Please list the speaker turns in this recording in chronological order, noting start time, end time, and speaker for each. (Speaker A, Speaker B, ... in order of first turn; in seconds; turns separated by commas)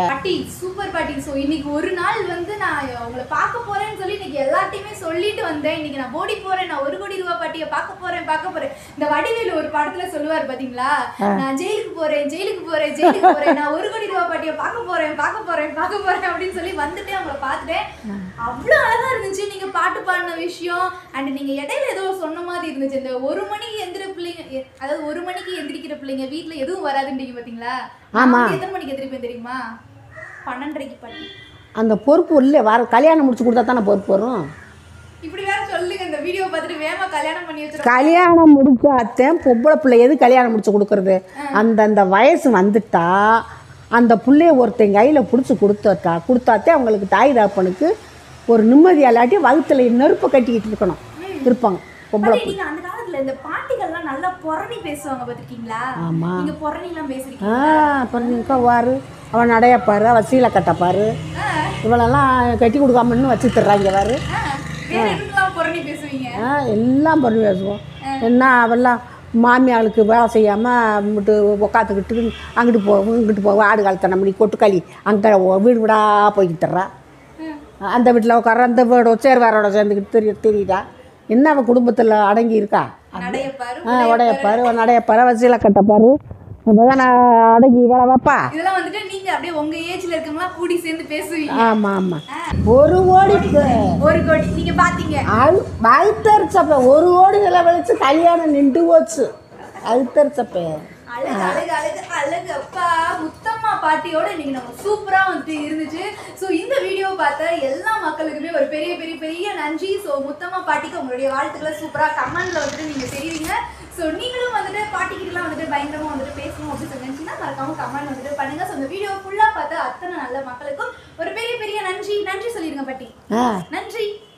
Speaker A: 0.1-17.9, Speaker B: 13.1-13.5, Speaker A: 18.4-29.6, Speaker B: 28.2-28.6, Speaker A: 30.5-31.3, Speaker B: 31.8-34.4, Speaker A: 35.2-38.2, Speaker B: 37.8-43.4, Speaker B: 44.0-47.9, Speaker B: 48.5-52.6, Speaker A: 51.2-51.5, Speaker A: 52.2-58.6, Speaker B: 56.0-56.5, Speaker B: 57.4-61.1, Speaker A: 61.4-61.8, Speaker B: 61.8-64.2, Speaker A: 64.3-66.4, Speaker B: 64.9-65.2, Speaker B: 66.4-76.9, Speaker B: 77.9-86.2, Speaker A: 83.2-84.7, Speaker B: 86.7-88.5, Speaker A: 88.5-91.7, Speaker B: 91.5-94.0, Speaker A: 93.2-95.3, Speaker B: 95.3-99.3, Speaker B: 99.8-100.8, Speaker A: 101.1-123.1, Speaker B: 101.3-101.6, Speaker B: 123.3-123.6, Speaker A: 123.7-124.1